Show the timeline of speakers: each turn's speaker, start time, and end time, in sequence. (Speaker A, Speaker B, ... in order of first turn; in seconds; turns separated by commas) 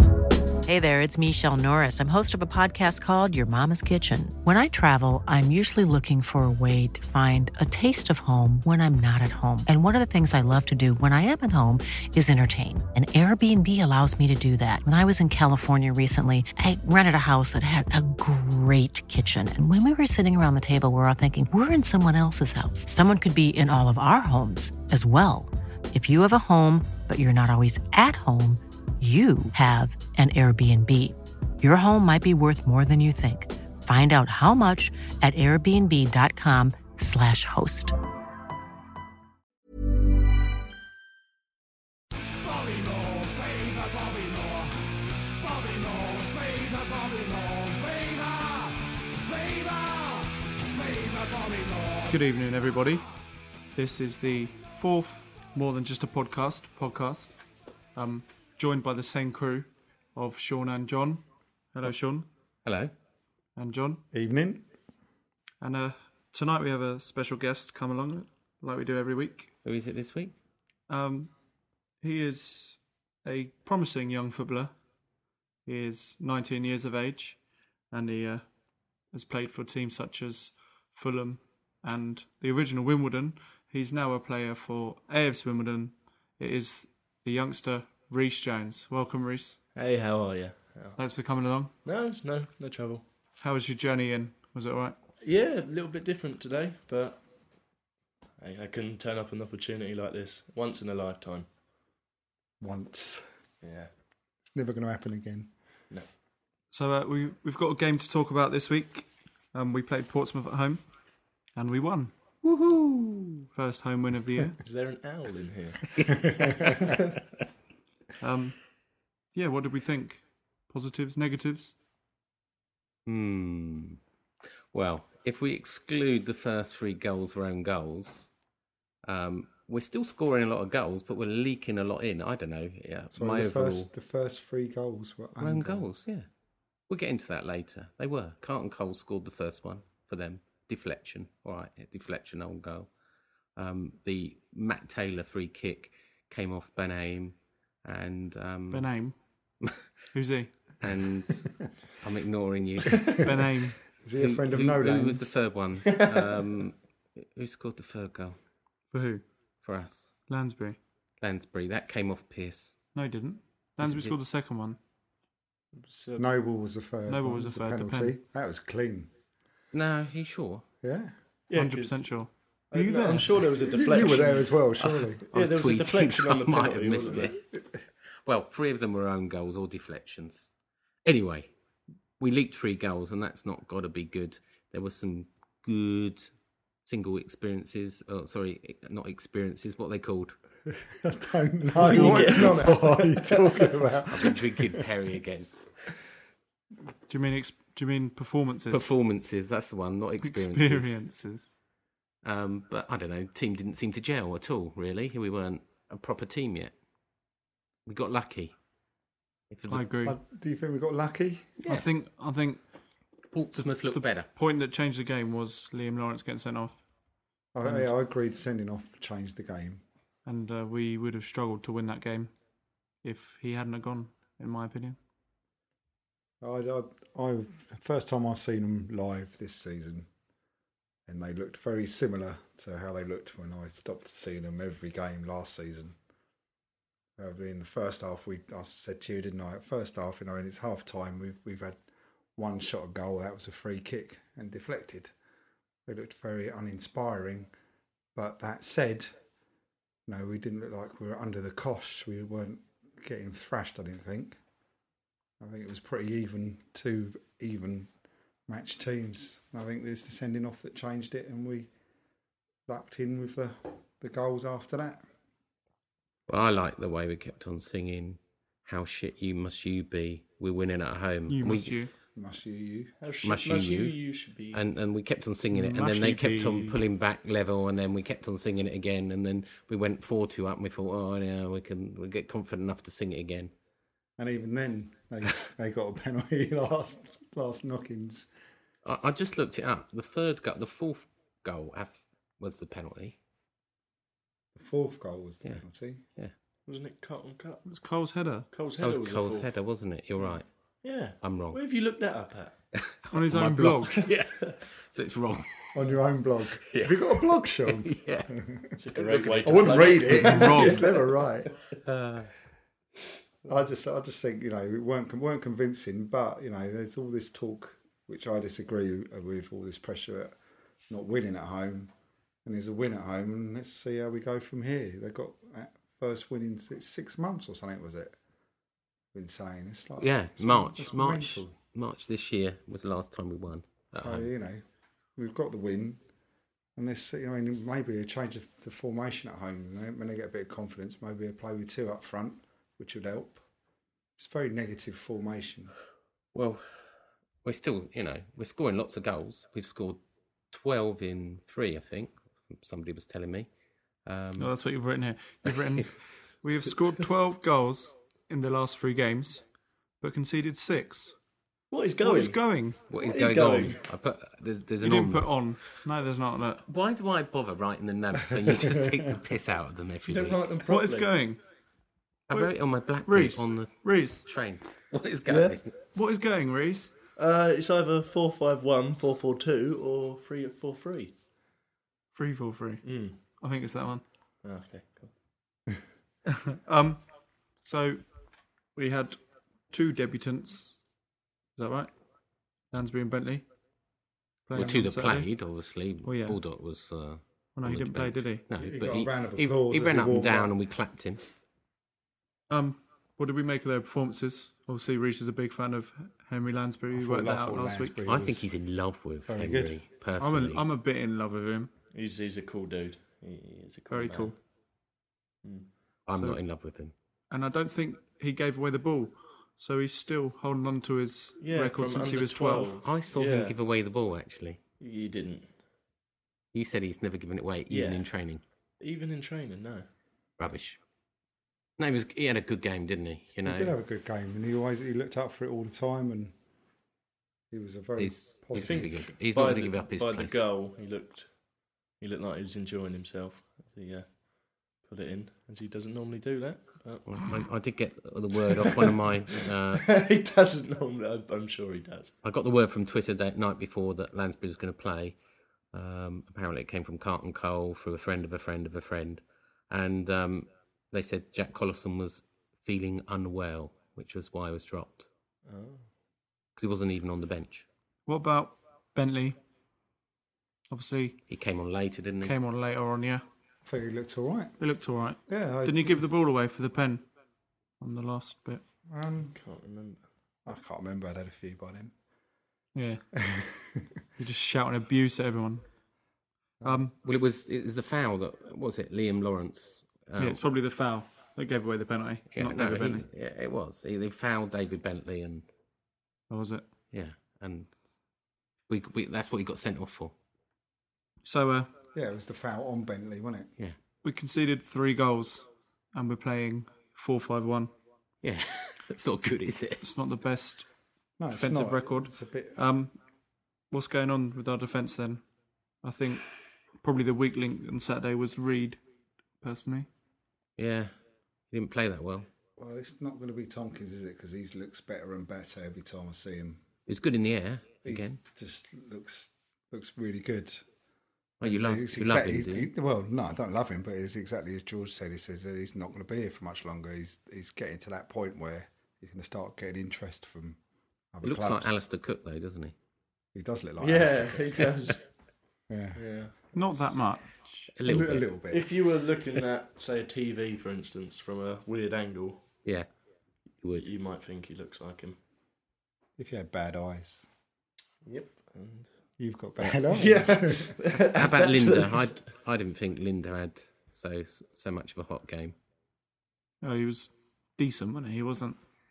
Speaker A: 0.6-37.9, Speaker B: 52.0-53.0, Speaker B: 53.7-57.3, Speaker B: 57.9-62.3, Speaker C: 62.6-62.9, Speaker B: 63.5-64.0, Speaker D: 64.1-64.7, Speaker B: 65.6-69.5, Speaker C: 69.6-70.3, Speaker B: 70.9-71.3, Speaker B: 72.0-74.8, Speaker B: 75.7-77.4, Speaker B: 77.9-78.5, Speaker B: 79.1-89.6, Speaker E: 89.7-91.0, Speaker B: 91.0-91.7, Speaker E: 91.8-93.0, Speaker B: 93.4-95.0, Speaker E: 95.2-97.2, Speaker E: 98.4-101.5, Speaker D: 102.6-103.3, Speaker E: 103.6-103.9, Speaker D: 104.5-105.5, Speaker B: 106.7-110.8, Speaker B: 111.5-112.1, Speaker C: 112.4-113.5, Speaker B: 113.5-114.6, Speaker E: 114.6-117.0, Speaker C: 116.5-117.0, Speaker B: 118.2-118.6, Speaker B: 119.3-121.7, Speaker C: 123.0-124.0, Speaker C: 124.7-128.3, Speaker C: 129.0-133.9, Speaker D: 133.1-135.8, Speaker C: 135.4-136.2, Speaker C: 136.9-142.9, Speaker C: 143.6-148.9, Speaker B: 148.7-149.2, Speaker B: 150.1-150.5, Speaker C: 150.8-153.3, Speaker B: 153.2-153.8, Speaker D: 154.0-155.3, Speaker C: 154.2-158.4, Speaker B: 158.9-159.2, Speaker C: 159.6-160.1, Speaker B: 160.3-160.8, Speaker C: 161.2-162.7, Speaker B: 162.9-164.8, Speaker C: 163.8-164.2, Speaker E: 165.8-166.2, Speaker D: 166.2-169.1, Speaker B: 167.1-168.1, Speaker C: 169.7-170.6, Speaker D: 170.8-171.1, Speaker E: 171.5-172.1, Speaker B: 171.5-173.4, Speaker E: 172.7-174.6, Speaker D: 173.7-175.3, Speaker C: 174.8-177.4, Speaker E: 175.3-177.3, Speaker C: 178.2-180.5, Speaker C: 181.0-181.5, Speaker C: 182.2-186.3, Speaker C: 186.8-190.3, Speaker D: 190.9-194.8, Speaker E: 191.7-193.4, Speaker C: 191.9-192.6, Speaker C: 194.1-195.6, Speaker B: 197.1-198.8, Speaker C: 198.7-201.0, Speaker B: 200.2-201.5, Speaker C: 202.2-206.7, Speaker C: 207.8-208.5, Speaker C: 209.5-209.8, Speaker B: 209.7-210.2, Speaker D: 210.0-211.5, Speaker B: 211.7-212.6, Speaker C: 213.3-214.3, Speaker B: 213.9-216.8, Speaker D: 217.5-219.8, Speaker B: 217.6-217.9, Speaker B: 220.2-222.3, Speaker B: 223.0-225.0, Speaker D: 226.4-230.1, Speaker D: 231.1-236.0, Speaker D: 237.2-241.8, Speaker D: 242.3-245.1, Speaker D: 245.8-247.5, Speaker D: 248.1-249.2, Speaker D: 250.1-254.4, Speaker D: 255.4-257.9, Speaker D: 258.5-261.7, Speaker D: 262.7-265.0, Speaker C: 266.3-271.8, Speaker B: 271.3-271.9, Speaker D: 272.1-272.9, Speaker E: 273.0-274.6, Speaker C: 273.2-273.9, Speaker C: 274.5-283.5, Speaker B: 275.5-276.8, Speaker D: 284.2-288.3, Speaker C: 288.8-293.1, Speaker D: 294.6-296.0, Speaker E: 296.6-297.7, Speaker B: 297.6-298.5, Speaker E: 298.5-299.5, Speaker C: 298.8-300.5, Speaker E: 300.8-302.6, Speaker C: 301.2-301.6, Speaker C: 302.7-305.8, Speaker B: 303.1-304.0, Speaker E: 303.9-304.6, Speaker D: 305.7-308.8, Speaker C: 306.6-308.3, Speaker E: 308.8-311.7, Speaker C: 308.9-310.9, Speaker D: 309.4-311.5, Speaker B: 310.2-310.8, Speaker C: 311.8-312.3, Speaker D: 313.5-320.3, Speaker D: 320.9-321.9, Speaker D: 322.4-328.2, Speaker D: 329.1-331.5, Speaker C: 330.0-334.3, Speaker D: 333.9-334.6, Speaker D: 335.1-336.0, Speaker D: 336.8-343.4, Speaker D: 344.2-345.7, Speaker C: 346.3-346.6, Speaker C: 347.4-353.5, Speaker C: 354.1-354.5, Speaker B: 354.4-359.4, Speaker C: 355.5-355.9, Speaker B: 360.0-361.1, Speaker E: 361.7-362.4, Speaker B: 362.0-362.8, Speaker C: 362.9-365.3, Speaker E: 363.0-363.8, Speaker B: 364.8-366.6, Speaker C: 366.6-370.5, Speaker D: 368.6-368.9, Speaker E: 370.0-371.1, Speaker B: 370.7-371.4, Speaker C: 372.3-375.7, Speaker B: 373.0-374.2, Speaker B: 375.3-376.9, Speaker E: 377.1-381.1, Speaker B: 382.1-384.0, Speaker E: 382.8-383.2, Speaker E: 384.4-385.1, Speaker B: 386.4-387.0, Speaker B: 387.6-388.1, Speaker B: 388.7-389.2, Speaker B: 389.7-390.8, Speaker B: 391.6-391.9, Speaker B: 392.7-393.4, Speaker B: 394.5-395.3, Speaker C: 394.5-401.2, Speaker B: 396.0-396.4, Speaker B: 397.6-398.4, Speaker D: 398.6-400.5, Speaker B: 402.5-408.0, Speaker D: 406.9-408.5, Speaker C: 408.1-410.6, Speaker D: 409.3-409.8, Speaker B: 410.2-411.7, Speaker E: 411.9-414.4, Speaker B: 413.9-414.3, Speaker E: 415.4-415.7, Speaker C: 416.1-416.9, Speaker B: 416.1-416.4, Speaker B: 417.3-422.8, Speaker E: 421.4-423.6, Speaker C: 422.8-424.6, Speaker E: 424.8-425.6, Speaker C: 426.5-428.4, Speaker E: 427.7-428.1, Speaker E: 428.8-429.9, Speaker C: 430.4-430.8, Speaker C: 431.8-433.7, Speaker D: 433.4-436.3, Speaker D: 437.5-439.1, Speaker C: 438.0-440.4, Speaker E: 438.5-441.3, Speaker E: 442.0-444.1, Speaker E: 444.8-447.2, Speaker C: 447.1-449.8, Speaker E: 448.4-452.1, Speaker C: 452.2-455.1, Speaker C: 455.7-465.1, Speaker E: 465.4-465.9, Speaker C: 466.6-467.6, Speaker B: 468.1-469.4, Speaker B: 470.7-471.2, Speaker C: 471.3-472.4, Speaker B: 472.2-473.2, Speaker D: 473.6-474.6, Speaker B: 474.6-477.0, Speaker D: 475.3-476.0, Speaker B: 477.8-478.6, Speaker D: 478.9-479.4, Speaker E: 479.3-480.0, Speaker D: 480.4-481.9, Speaker B: 482.7-483.0, Speaker D: 483.1-483.9, Speaker B: 484.2-485.6, Speaker B: 486.6-486.9, Speaker C: 487.0-490.4, Speaker B: 490.2-493.0, Speaker C: 492.3-495.5, Speaker B: 496.3-496.6, Speaker C: 496.9-497.7, Speaker C: 498.7-500.1, Speaker B: 501.2-501.7, Speaker D: 501.9-503.5, Speaker B: 504.0-507.7, Speaker C: 508.2-509.9, Speaker B: 509.8-510.7, Speaker D: 511.2-512.6, Speaker B: 511.3-513.0, Speaker B: 513.7-515.2, Speaker B: 515.8-516.3, Speaker B: 516.8-518.8, Speaker B: 519.4-519.9, Speaker C: 520.6-520.9, Speaker C: 521.5-522.3, Speaker D: 522.6-526.6, Speaker C: 526.9-528.2, Speaker D: 527.8-530.6, Speaker C: 531.4-532.7, Speaker D: 531.4-540.6, Speaker D: 541.1-541.8, Speaker C: 541.2-542.7, Speaker D: 543.3-544.6, Speaker E: 543.8-545.0, Speaker D: 545.7-546.0, Speaker E: 545.9-546.6, Speaker B: 546.5-547.7, Speaker C: 547.8-548.3, Speaker D: 547.8-548.7, Speaker E: 548.5-552.4, Speaker C: 553.6-553.9, Speaker E: 553.8-555.2, Speaker D: 556.2-557.2, Speaker E: 558.0-558.9, Speaker D: 559.2-560.7, Speaker E: 559.8-562.2, Speaker C: 561.1-565.5, Speaker B: 566.6-568.6